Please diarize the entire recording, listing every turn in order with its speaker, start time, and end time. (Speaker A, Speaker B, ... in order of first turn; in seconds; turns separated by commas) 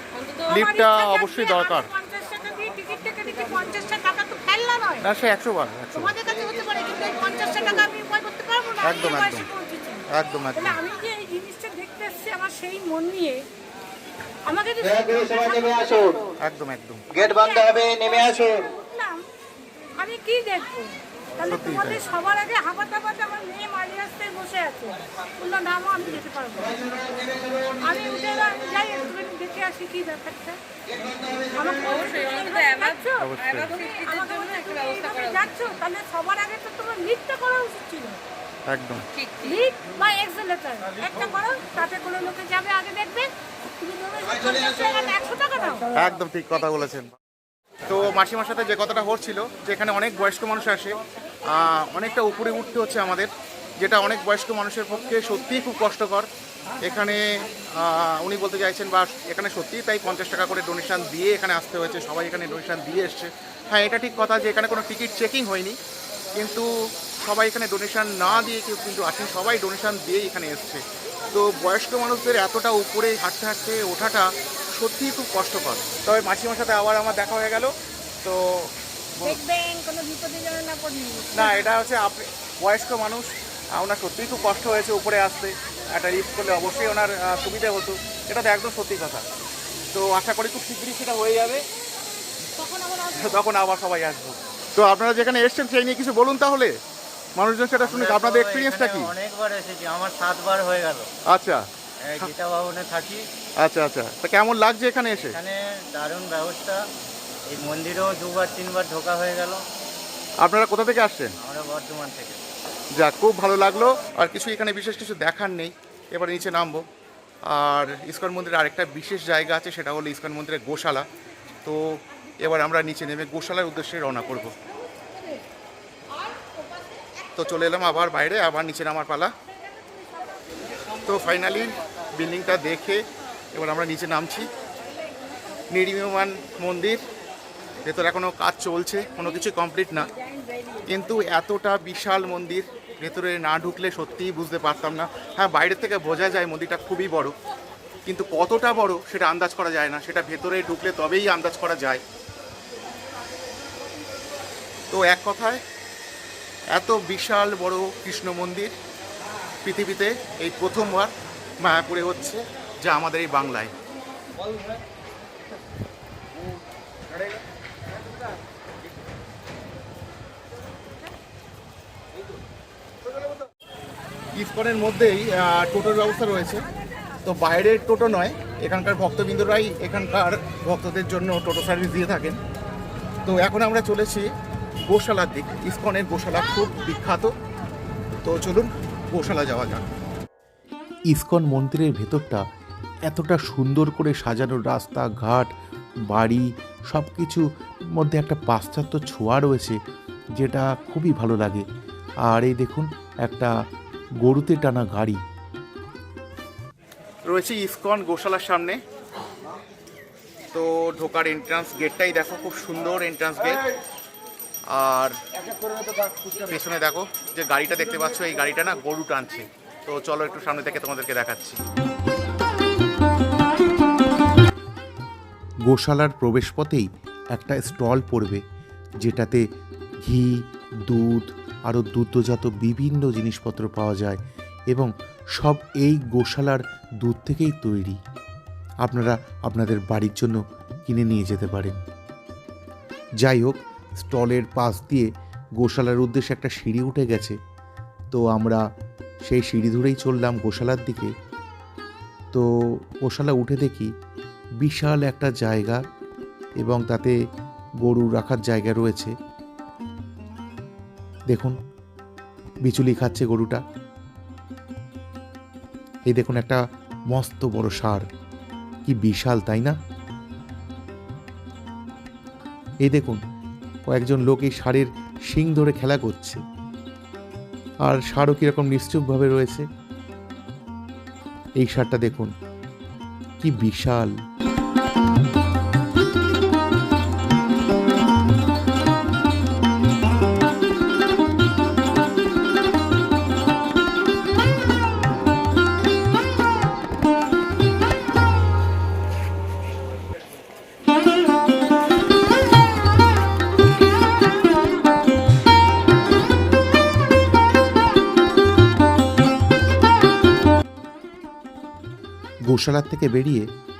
Speaker A: 0.3-5.1, Speaker B: 0.5-1.9, Speaker B: 5.0-6.2, Speaker A: 5.9-13.4, Speaker C: 6.3-7.9, Speaker B: 8.8-9.5, Speaker B: 10.1-10.8, Speaker A: 14.4-15.1, Speaker C: 14.8-16.2, Speaker B: 16.4-17.1, Speaker C: 17.1-18.6, Speaker A: 17.1-17.7, Speaker A: 18.7-19.2, Speaker A: 20.0-26.8, Speaker B: 21.4-22.0, Speaker C: 26.6-28.6, Speaker A: 27.8-30.6, Speaker C: 30.9-32.1, Speaker A: 31.6-38.2, Speaker B: 33.2-33.7, Speaker B: 38.7-39.1, Speaker A: 39.3-45.9, Speaker B: 46.0-47.1, Speaker B: 47.9-51.0, Speaker B: 51.5-53.3, Speaker B: 53.8-56.3, Speaker B: 56.8-65.8, Speaker B: 66.4-66.7, Speaker B: 67.2-77.7, Speaker B: 78.2-79.4, Speaker A: 79.2-81.7, Speaker B: 81.3-89.2, Speaker B: 89.9-91.6, Speaker A: 92.6-93.4, Speaker B: 93.1-96.7, Speaker B: 97.4-99.1, Speaker D: 97.8-101.1, Speaker B: 101.3-101.7, Speaker D: 102.0-103.2, Speaker B: 103.6-105.4, Speaker D: 105.2-106.8, Speaker D: 107.5-109.6, Speaker B: 110.4-111.3, Speaker D: 111.4-112.4, Speaker B: 113.0-116.8, Speaker B: 117.5-121.1, Speaker B: 121.6-124.5, Speaker B: 127.4-129.3, Speaker B: 131.1-133.0, Speaker B: 133.5-134.5, Speaker B: 135.7-137.0, Speaker B: 137.8-140.1, Speaker B: 140.9-147.3, Speaker B: 148.1-152.0, Speaker B: 154.9-155.6, Speaker B: 156.7-158.7, Speaker B: 159.6-163.7, Speaker B: 174.4-176.6, Speaker B: 177.2-182.4, Speaker B: 183.3-184.3, Speaker B: 184.9-187.3, Speaker B: 188.2-189.8, Speaker E: 191.1-192.4, Speaker E: 193.1-195.5, Speaker E: 196.1-199.8, Speaker E: 200.4-201.6, Speaker E: 202.3-203.5, Speaker E: 204.2-205.2, Speaker B: 207.3-208.8, Speaker B: 210.5-213.6, Speaker B: 214.7-215.2, Speaker B: 216.4-221.6, Speaker E: 225.7-228.4, Speaker E: 229.0-229.4, Speaker E: 230.0-238.0, Speaker E: 238.8-241.8, Speaker E: 243.2-245.1, Speaker E: 245.6-247.4, Speaker E: 248.1-248.6, Speaker E: 249.3-251.1, Speaker E: 252.3-253.9, Speaker E: 254.6-255.8, Speaker E: 256.6-257.1, Speaker E: 257.8-259.1, Speaker E: 261.3-261.6, Speaker E: 262.6-263.6, Speaker E: 266.1-266.6, Speaker E: 267.1-268.0, Speaker E: 268.9-269.8, Speaker E: 272.8-273.2, Speaker E: 273.9-276.4, Speaker E: 277.8-279.6, Speaker E: 281.6-282.3, Speaker E: 283.4-284.1, Speaker E: 312.5-313.5